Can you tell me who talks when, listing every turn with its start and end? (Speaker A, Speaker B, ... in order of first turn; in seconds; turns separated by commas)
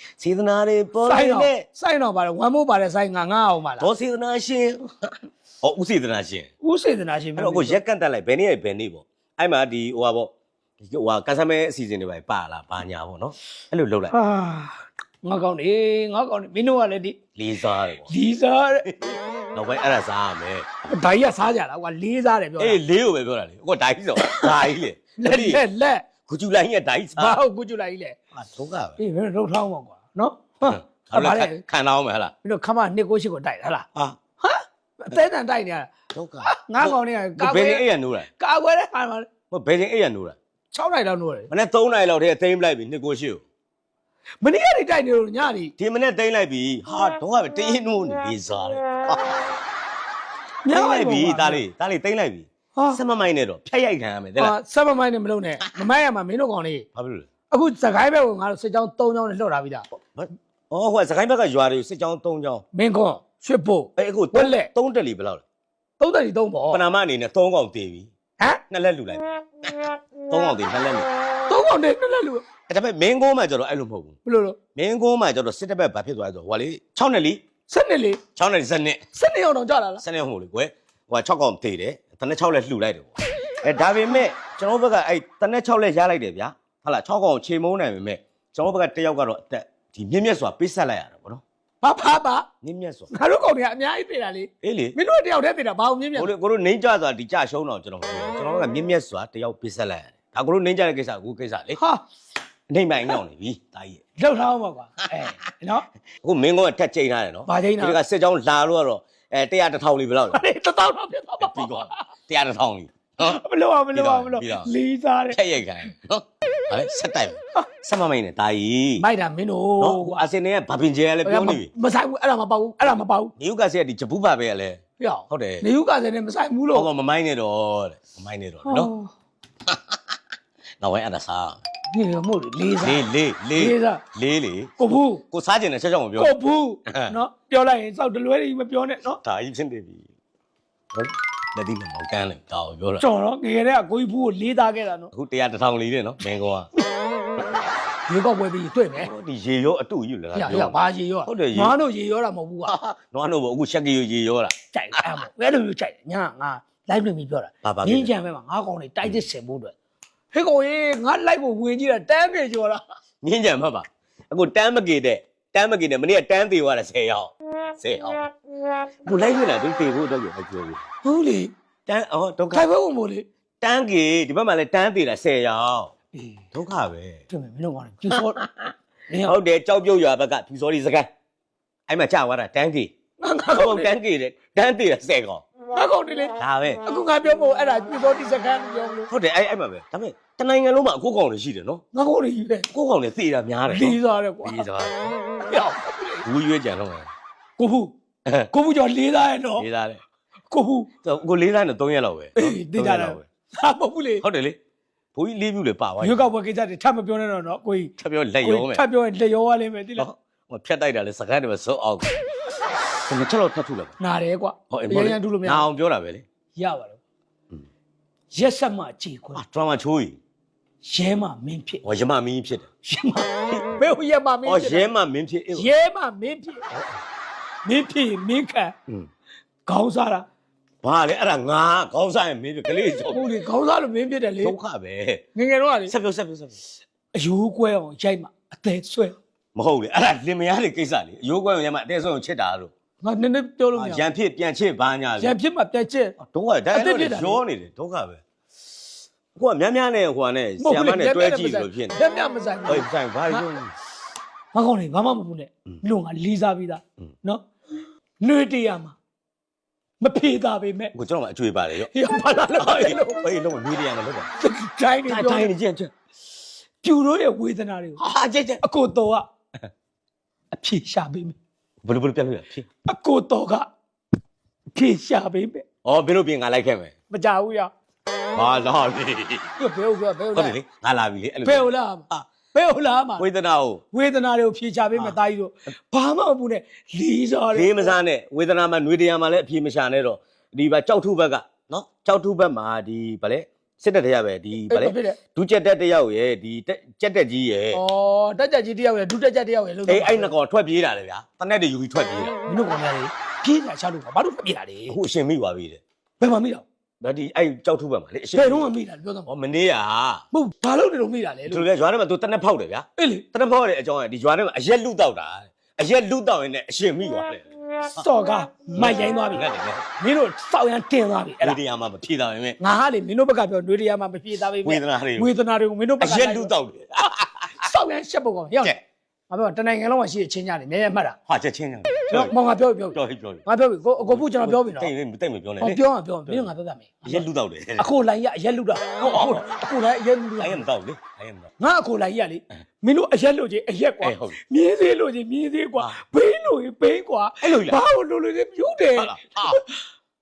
Speaker A: 0.2-1.6, Speaker B: 1.0-3.9, Speaker A: 3.8-6.5, Speaker B: 6.6-7.8, Speaker A: 7.4-14.1, Speaker B: 14.1-17.2, Speaker A: 17.4-18.1, Speaker B: 18.1-18.9, Speaker A: 18.9-20.7, Speaker B: 20.9-22.8, Speaker A: 22.6-25.6, Speaker B: 24.3-24.6, Speaker B: 25.2-26.0, Speaker A: 26.2-27.4, Speaker B: 27.2-28.1, Speaker A: 28.3-29.0, Speaker B: 29.0-31.6, Speaker A: 30.6-32.3, Speaker B: 32.4-33.9, Speaker B: 34.4-35.9, Speaker A: 36.1-38.3, Speaker B: 36.4-37.9, Speaker B: 38.4-39.3, Speaker A: 39.5-40.4, Speaker B: 40.7-41.5, Speaker A: 41.5-43.4, Speaker B: 44.4-45.7, Speaker A: 45.8-49.4, Speaker B: 50.6-51.6, Speaker A: 50.7-54.5, Speaker B: 52.7-53.0, Speaker B: 54.4-56.9, Speaker A: 57.0-57.3, Speaker B: 57.5-59.8, Speaker A: 59.9-62.6, Speaker B: 62.7-64.7, Speaker A: 64.0-65.4, Speaker B: 66.0-66.8, Speaker A: 66.7-68.1, Speaker A: 68.7-71.1, Speaker B: 71.5-72.4, Speaker A: 72.7-74.2, Speaker B: 74.2-74.6, Speaker A: 74.7-77.4, Speaker B: 77.7-78.2, Speaker A: 78.3-79.0, Speaker B: 79.1-80.0, Speaker A: 80.0-91.4, Speaker B: 91.8-92.5, Speaker A: 92.6-93.1, Speaker B: 93.1-96.3, Speaker A: 94.6-95.0, Speaker A: 96.1-101.8, Speaker B: 101.8-102.0, Speaker A: 102.7-104.0, Speaker B: 104.2-105.8, Speaker A: 106.2-110.4, Speaker B: 107.5-108.0, Speaker B: 110.3-112.0, Speaker A: 111.4-113.4, Speaker B: 113.2-115.4, Speaker A: 113.9-114.7, Speaker A: 115.3-119.0, Speaker B: 119.0-120.2, Speaker A: 119.8-121.7, Speaker B: 121.2-123.3, Speaker A: 123.4-125.6, Speaker B: 125.0-126.9, Speaker A: 126.7-128.9, Speaker B: 128.7-129.1, Speaker A: 129.7-130.0, Speaker A: 130.8-131.6, Speaker B: 131.9-134.0, Speaker A: 132.8-136.3, Speaker B: 134.8-135.2, Speaker B: 136.2-139.2, Speaker A: 136.9-137.1, Speaker A: 139.2-140.1, Speaker A: 140.9-143.0, Speaker B: 143.0-145.1, Speaker A: 145.1-146.7, Speaker B: 148.1-149.1, Speaker A: 148.9-151.8, Speaker B: 150.3-152.7, Speaker A: 152.7-155.0, Speaker B: 154.7-159.7, Speaker A: 157.6-158.1, Speaker B: 160.3-162.8, Speaker A: 163.2-168.3, Speaker A: 169.1-170.8, Speaker B: 171.0-171.5, Speaker A: 171.9-172.7, Speaker B: 172.5-173.2, Speaker A: 173.6-175.9, Speaker B: 176.1-176.4, Speaker A: 176.5-177.2, Speaker B: 177.3-178.4, Speaker A: 178.1-181.1, Speaker B: 179.1-179.3, Speaker A: 181.9-182.9, Speaker B: 183.2-183.9, Speaker A: 183.5-185.4, Speaker B: 185.7-189.1, Speaker A: 186.4-186.8, Speaker A: 189.1-191.8, Speaker B: 191.9-192.7, Speaker A: 192.7-195.1, Speaker B: 193.7-194.7, Speaker B: 195.4-196.2, Speaker A: 196.2-197.1, Speaker B: 197.6-197.9, Speaker B: 198.5-199.7, Speaker A: 199.6-200.0, Speaker B: 200.5-200.9, Speaker A: 201.0-203.3, Speaker B: 202.3-204.2, Speaker A: 204.2-204.6, Speaker A: 205.1-206.2, Speaker B: 206.0-210.1, Speaker A: 208.0-208.8, Speaker A: 210.0-212.1, Speaker A: 213.1-213.9, Speaker B: 214.0-215.7, Speaker A: 214.7-216.2, Speaker B: 216.6-217.0, Speaker B: 218.3-219.4, Speaker A: 219.3-220.2, Speaker B: 220.8-221.8, Speaker A: 221.8-222.7, Speaker B: 222.8-224.9, Speaker A: 224.4-225.7, Speaker B: 225.6-226.7, Speaker B: 227.6-228.7, Speaker B: 229.7-230.2, Speaker A: 230.8-233.3, Speaker B: 233.1-234.6, Speaker A: 234.4-235.2, Speaker B: 235.3-235.9, Speaker A: 235.9-236.6, Speaker B: 237.1-239.2, Speaker A: 239.6-242.7, Speaker B: 243.0-244.0, Speaker A: 243.7-245.3, Speaker B: 245.2-246.2, Speaker A: 246.2-248.2, Speaker B: 246.7-247.4, Speaker A: 249.3-252.0, Speaker B: 250.6-253.5, Speaker A: 252.7-253.7, Speaker B: 254.5-257.4, Speaker B: 258.2-258.9, Speaker B: 260.0-260.9, Speaker A: 260.9-261.9, Speaker B: 261.9-263.2, Speaker A: 262.5-264.3, Speaker B: 264.4-265.5, Speaker A: 265.1-265.9, Speaker B: 266.8-268.0, Speaker A: 268.0-268.6, Speaker B: 268.6-269.2, Speaker B: 270.5-271.4, Speaker A: 271.8-272.7, Speaker B: 272.9-273.7, Speaker B: 274.7-275.6, Speaker A: 275.8-276.9, Speaker B: 277.1-277.7, Speaker A: 278.3-279.5, Speaker B: 279.6-280.6, Speaker A: 280.3-282.2, Speaker B: 281.4-283.2, Speaker A: 283.2-283.8, Speaker B: 283.9-287.9, Speaker A: 287.5-297.8, Speaker B: 294.5-295.2, Speaker B: 297.7-300.3, Speaker A: 299.9-302.4, Speaker B: 302.4-304.9, Speaker A: 304.9-305.8, Speaker B: 306.2-306.6, Speaker A: 307.0-308.7, Speaker B: 308.3-309.3, Speaker A: 309.2-310.2, Speaker B: 310.3-311.6, Speaker A: 311.5-318.0, Speaker B: 313.0-313.2, Speaker B: 317.9-319.4, Speaker A: 318.7-319.9, Speaker B: 320.0-321.6, Speaker A: 321.4-322.6, Speaker B: 322.6-326.5, Speaker A: 324.6-325.3, Speaker A: 326.0-327.6, Speaker B: 327.6-328.7, Speaker B: 329.3-331.2, Speaker A: 331.3-332.3, Speaker B: 332.1-334.9, Speaker A: 332.9-333.4, Speaker A: 334.0-336.5, Speaker B: 335.6-340.6, Speaker A: 337.0-337.9, Speaker A: 339.0-339.4, Speaker A: 340.4-341.5, Speaker B: 341.6-349.7, Speaker A: 344.0-344.4, Speaker A: 347.4-347.8, Speaker A: 348.9-349.6